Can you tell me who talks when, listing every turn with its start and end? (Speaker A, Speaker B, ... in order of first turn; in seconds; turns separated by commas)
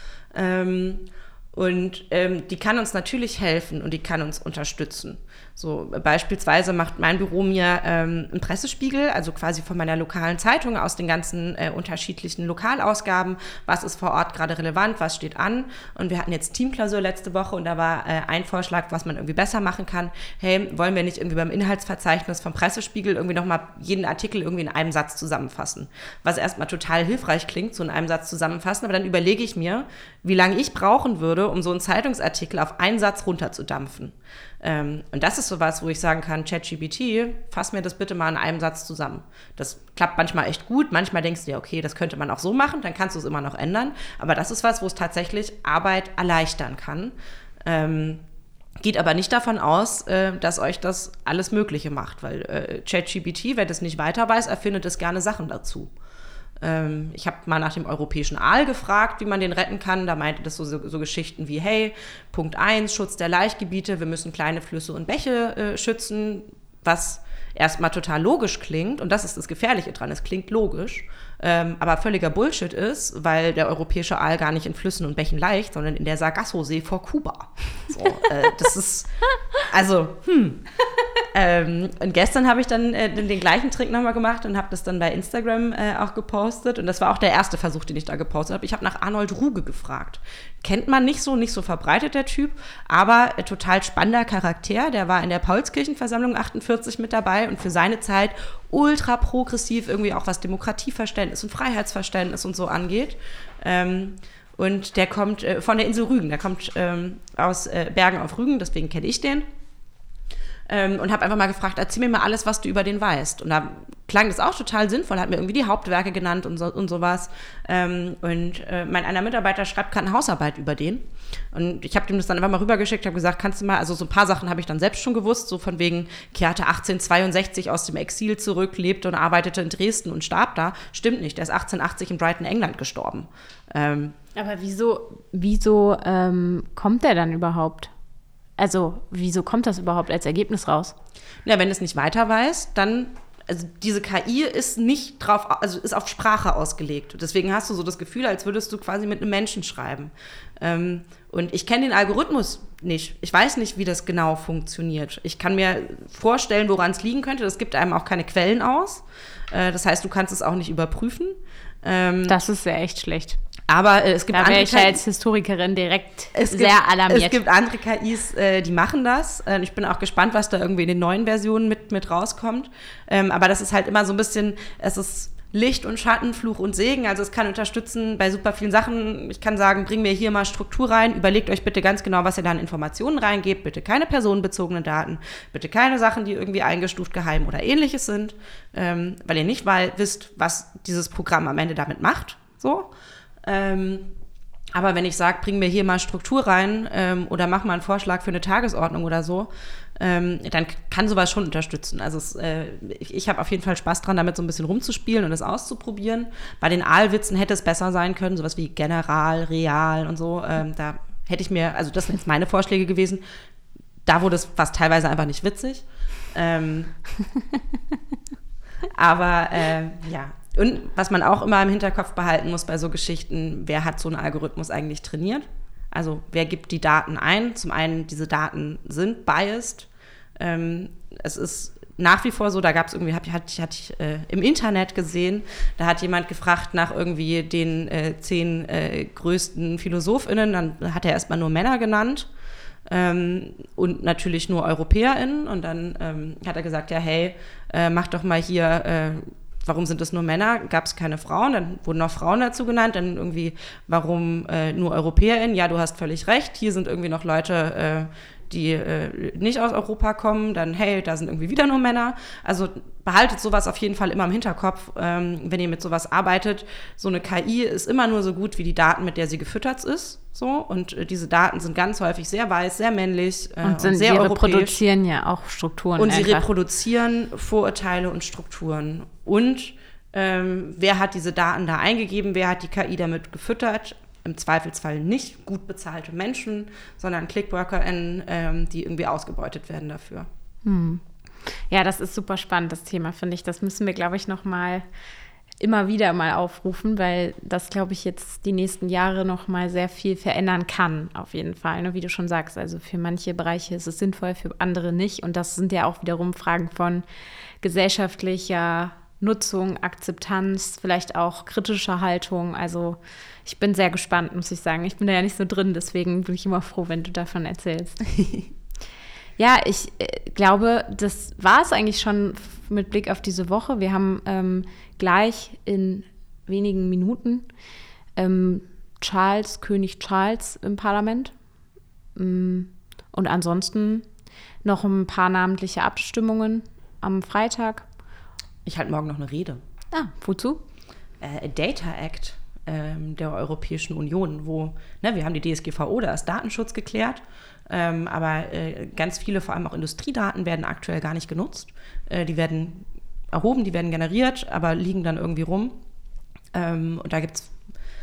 Speaker A: 0.3-47.1, Speaker A: 47.6-48.2, Speaker A: 48.8-55.9, Speaker A: 56.6-79.1, Speaker A: 79.6-80.6, Speaker A: 81.3-109.5, Speaker A: 110.7-134.2, Speaker B: 134.3-137.9, Speaker B: 138.6-140.9, Speaker A: 141.4-162.4, Speaker B: 162.3-163.4, Speaker A: 163.7-165.0, Speaker B: 164.3-167.4, Speaker A: 166.3-192.9, Speaker A: 193.4-194.1, Speaker A: 194.7-213.2, Speaker A: 214.1-216.9, Speaker A: 218.9-242.3, Speaker A: 242.9-274.8, Speaker B: 273.6-276.5, Speaker A: 276.0-290.3, Speaker B: 290.6-291.0, Speaker B: 291.7-294.9, Speaker B: 295.6-307.1, Speaker B: 307.6-318.4, Speaker B: 319.4-327.5, Speaker B: 328.2-331.3, Speaker B: 332.2-334.1, Speaker B: 334.6-337.9, Speaker A: 338.6-339.6, Speaker B: 339.9-340.6, Speaker A: 341.2-355.8, Speaker A: 356.5-357.5